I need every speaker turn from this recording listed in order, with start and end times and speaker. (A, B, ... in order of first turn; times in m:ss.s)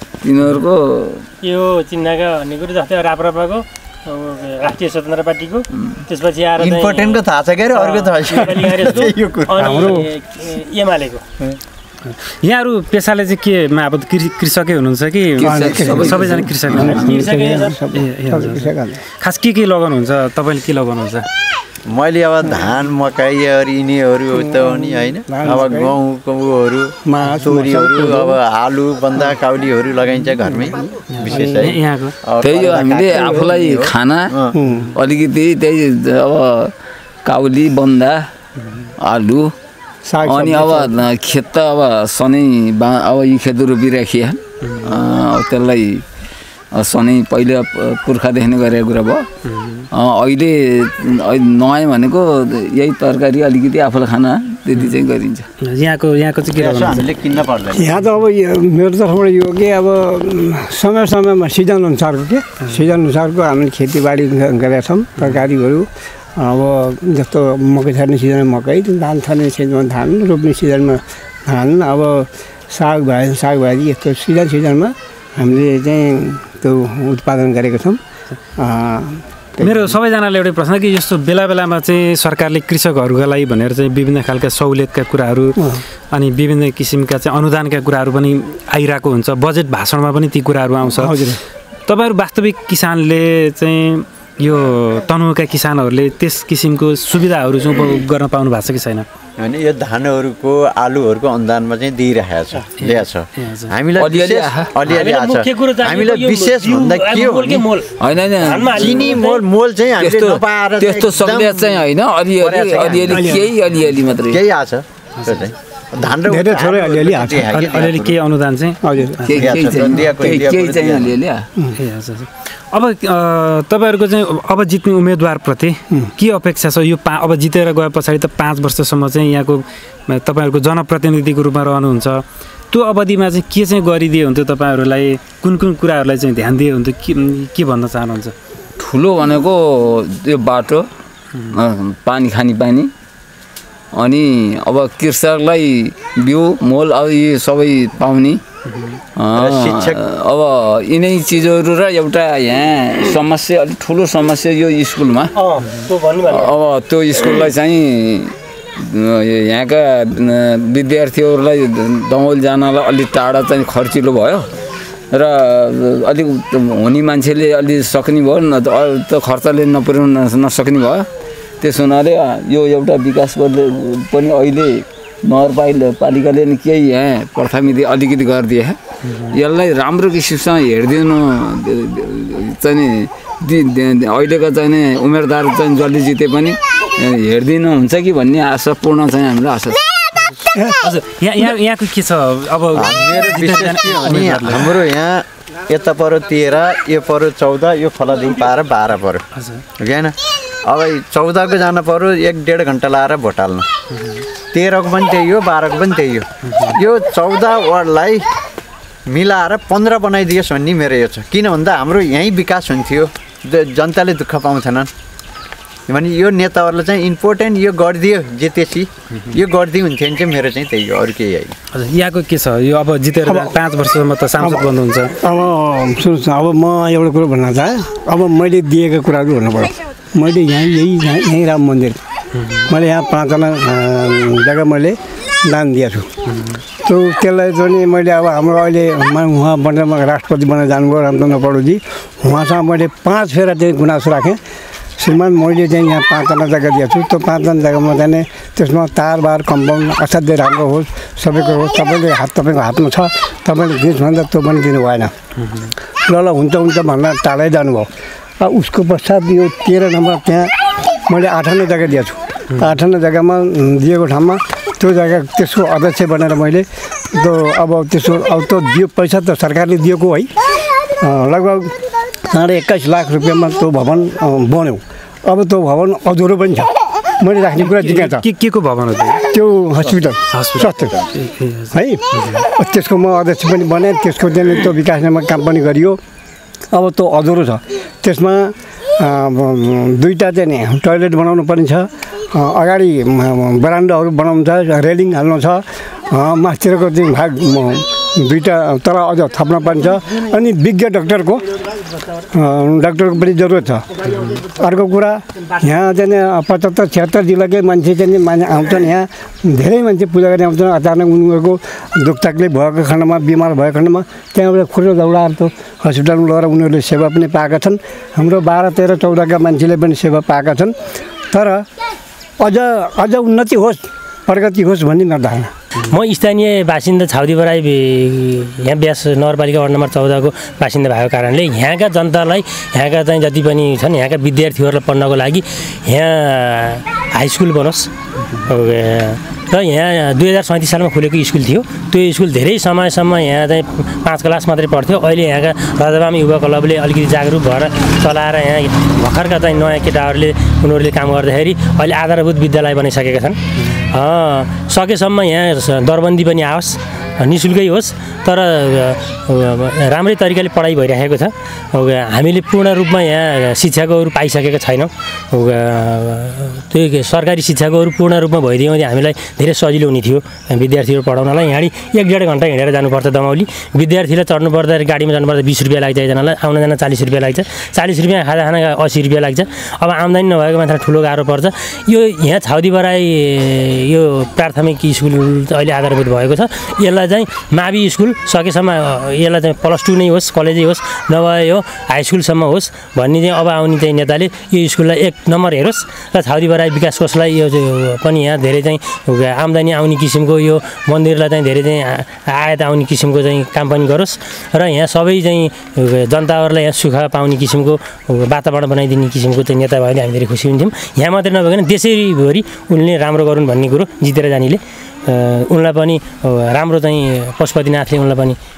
0:00.2-0:01.2 A
0:01.4-0:11.2 B
0:06.6-0:09.9 C
0:09.6-0:10.1 D
0:12.0-0:17.2 E
0:15.4-0:17.3 A
0:15.4-0:19.0 D
0:17.0-0:17.8 B
0:17.9-0:21.2 E
0:21.8-0:34.5 C
0:24.3-0:26.0 D
0:27.0-0:28.4 D
0:30.5-0:31.7 D
0:31.1-0:32.1 E
0:32.4-0:34.3 A
0:34.5-0:34.9 D
0:34.9-0:36.7 A
0:37.2-0:38.2 A
0:39.0-0:39.5 A
0:40.0-0:40.9 D
0:40.2-0:46.0 A
0:44.6-0:44.9 E
0:46.7-0:49.2 A
0:49.4-0:49.9 E
0:49.9-0:55.5 A
0:55.6-0:57.1 E
0:56.5-0:57.8 C
0:57.7-1:18.0 D
1:18.6-1:20.0 D
1:19.6-1:25.6 E
1:26.1-1:31.2 E
1:30.9-1:31.4 D
1:31.9-1:39.0 E
1:39.4-1:47.7 C
1:42.8-1:43.7 E
1:44.0-1:44.7 A
1:44.8-1:49.4 B
1:48.0-1:49.0 A
1:48.6-1:51.8 C
1:50.0-1:54.4 A
1:52.4-1:53.4 C
1:53.1-1:53.4 D
1:54.3-1:58.2 C
1:55.2-1:55.5 E
1:56.2-1:57.5 D
1:57.5-1:59.5 E
1:58.8-1:59.2 D
1:59.2-2:01.4 A
1:59.4-2:01.1 C
2:01.8-2:18.3 E
2:18.8-2:20.9 A
2:21.5-2:22.9 A
2:23.9-2:28.4 A
2:28.7-2:29.0 E
2:29.2-2:35.3 A
2:29.3-2:30.0 C
2:35.3-2:36.5 B
2:36.2-2:44.5 A
2:45.1-2:51.0 A
2:51.6-3:09.8 A
2:59.0-2:59.4 E
3:10.8-3:14.8 E
3:12.7-3:19.2 C
3:19.3-3:19.6 E
3:19.8-3:23.6 C
3:23.9-3:24.2 E
3:24.5-3:28.3 C
3:26.4-3:26.7 E
3:29.1-3:34.9 C
3:35.9-3:41.5 C
3:41.7-3:45.1 E
3:43.2-3:43.5 D
3:44.4-3:44.7 D
3:45.2-3:52.0 D
3:52.4-3:52.7 E
3:52.7-3:56.0 D
3:56.3-3:56.6 E
3:56.8-4:04.4 D
4:05.0-4:15.1 D
4:15.4-4:15.7 E
4:16.0-4:17.9 D
4:18.4-4:20.5 D
4:21.1-4:30.3 D
4:31.0-4:31.7 D
4:32.3-4:38.2 D
4:37.6-4:39.2 E
4:39.2-4:40.9 D
4:40.3-4:42.4 E
4:41.7-4:46.0 D
4:46.7-5:01.5 D
5:02.3-5:20.7 D
5:21.3-5:21.6 D
5:22.4-5:25.5 D
5:25.8-5:37.9 B
5:38.4-6:58.4 B